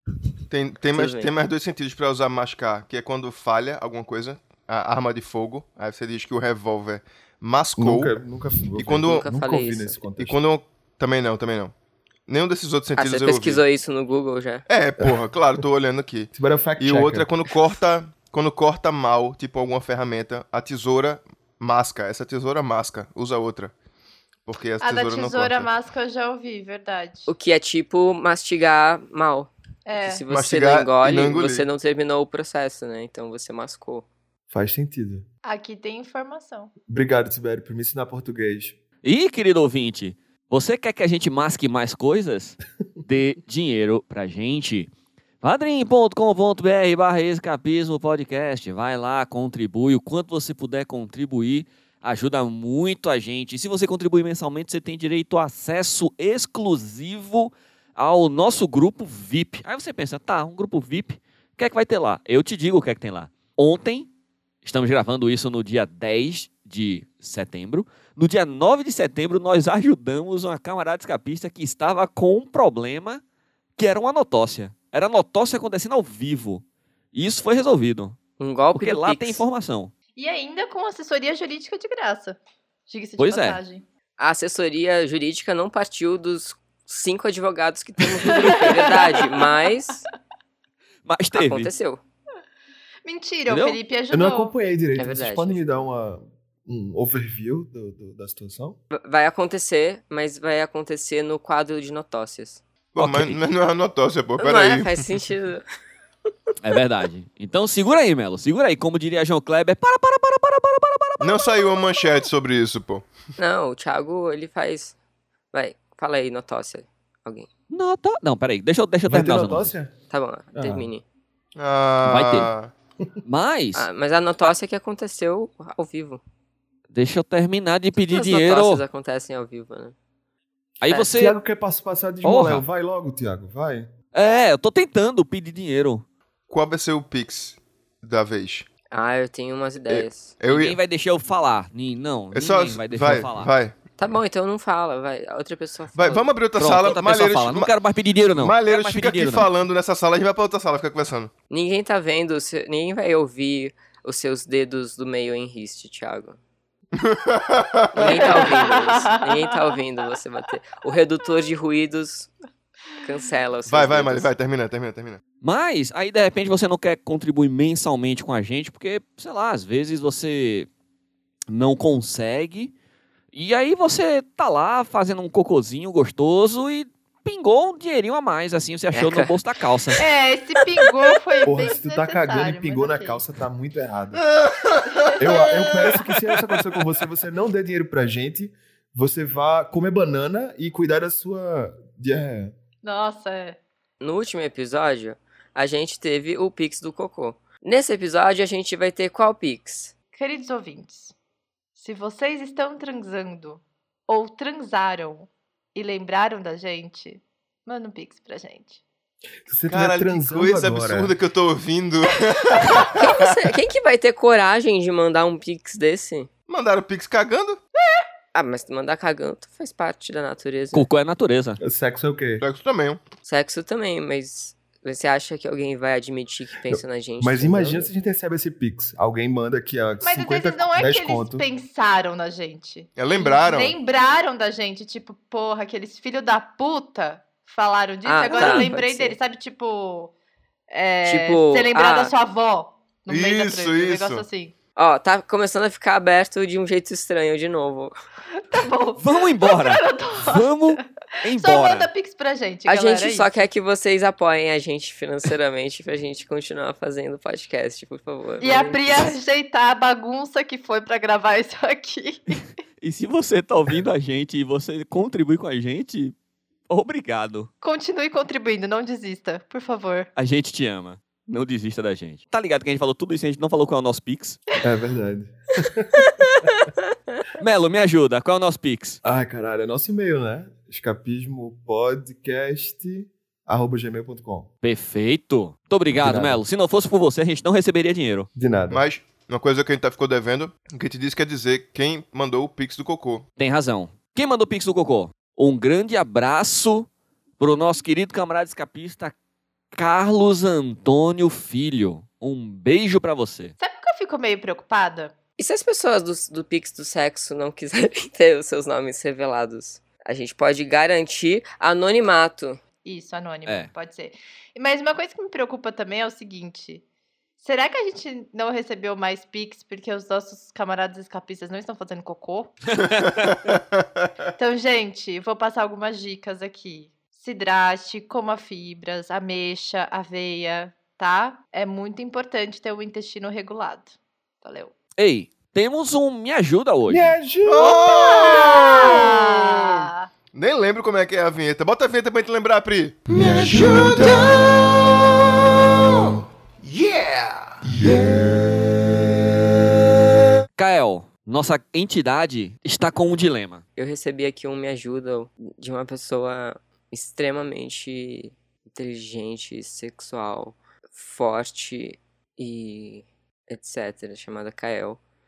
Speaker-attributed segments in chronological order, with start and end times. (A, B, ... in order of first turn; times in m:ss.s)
0:00.5-0:08.1 A
0:00.9-0:01.3 B
0:07.8-0:10.4 C
0:08.8-0:09.2 A
0:09.0-0:10.0 B
0:10.2-0:11.7 A
0:12.3-0:13.6 A
0:13.0-0:14.6 B
0:14.7-0:23.7 A
0:16.3-0:17.3 C
0:24.5-0:25.7 A
0:24.8-0:27.3 D
0:27.3-0:29.5 B
0:29.8-0:30.2 D
0:30.0-0:34.0 B
0:30.3-0:31.6 A
0:34.5-0:35.2 C
0:35.4-0:36.7 D
0:36.8-0:38.8 C
0:39.0-0:44.9 E
0:45.4-1:04.1 E
1:04.6-1:13.2 E
1:13.8-1:18.2 E
1:18.4-1:19.4 B
1:18.7-1:19.9 E
1:20.2-1:23.8 D
1:23.2-1:23.6 E
1:24.2-1:30.0 B
1:28.1-1:29.7 D
1:31.0-1:31.7 E
1:31.3-1:32.0 B
1:33.0-1:34.5 D
1:33.5-1:33.8 E
1:34.1-1:38.8 C
1:34.9-1:35.6 B
1:38.9-1:42.6 B
1:42.9-1:45.0 A
1:43.0-1:43.4 E
1:44.4-1:45.6 B
1:46.6-1:51.7 E
1:51.2-1:53.1 A
1:53.4-1:55.0 B
1:55.5-1:57.5 B
1:57.7-1:59.7 E
1:59.0-2:00.0 C
2:00.1-2:01.0 B
2:00.5-2:00.9 C
2:01.6-2:02.7 A
2:02.0-2:02.5 E
2:03.2-2:03.9 E
2:03.7-2:06.2 B
2:06.9-2:08.8 E
2:08.1-2:09.9 B
2:10.8-2:11.4 E
2:11.1-2:13.9 C
2:12.2-2:12.6 E
2:14.1-2:16.0 E
2:16.5-2:18.7 A
2:18.9-2:20.3 B
2:19.9-2:20.8 A
2:20.5-2:23.5 E
2:22.3-2:23.8 A
2:24.0-2:26.3 B
2:25.9-2:27.7 A
2:26.6-2:29.5 E
2:28.4-2:31.3 A
2:31.5-2:36.4 B
2:37.0-2:38.4 A
2:37.9-2:42.3 B
2:38.1-2:39.6 D
2:43.0-2:44.3 B
2:43.6-2:45.2 A
2:45.4-2:50.7 E
2:51.5-2:52.7 E
2:53.3-3:00.0 E
2:58.9-2:59.3 B
3:00.0-3:03.2 D
3:00.6-3:01.4 B
3:01.4-3:04.2 C
3:04.2-3:05.1 A
3:05.0-3:06.1 D
3:05.2-3:12.5 C
3:12.8-3:13.6 D
3:14.0-3:19.9 B
3:20.1-3:21.1 D
3:21.8-3:28.8 D
3:29.4-3:31.1 C
3:29.7-3:33.1 A
3:33.0-3:36.3 B
3:36.5-3:37.6 A
3:38.3-3:40.9 B
3:40.7-3:41.6 E
3:41.6-3:42.4 C
3:42.4-3:43.0 A
3:43.2-3:47.9 B
3:46.7-3:51.4 C
3:50.0-4:00.1 D
3:53.0-3:53.8 A
3:58.0-3:59.2 B
4:00.7-4:04.5 D
4:01.0-4:02.1 B
4:03.1-4:04.2 A
4:04.8-4:07.9 B
4:08.3-4:13.3 D
4:09.0-4:11.9 E
4:12.7-4:19.1 B
4:18.4-4:22.4 D
4:22.8-4:26.1 E
4:26.7-4:27.5 E
4:27.6-4:30.1 D
4:30.2-4:34.4 E
4:34.6-4:36.1 C
4:37.4-4:39.0 E
4:39.0-4:44.5 C
4:44.6-4:48.3 E
4:46.0-4:46.4 C
4:48.4-4:48.8 C
4:48.7-4:53.2 A
4:53.4-4:56.9 E
4:57.4-4:59.1 E
4:59.7-5:03.5 E
5:03.6-5:05.1 D
5:05.4-5:12.6 B
5:12.8-5:16.8 D
5:17.4-5:22.6 D
5:23.1-5:23.6 A
5:24.4-5:34.7 D
5:35.0-5:37.1 E
5:36.9-5:38.6 C
5:37.4-5:44.7 A
5:37.6-5:40.1 D
5:43.2-5:44.3 C
5:46.6-5:48.0 A
5:50.5-5:53.6 E
5:53.8-6:05.0 B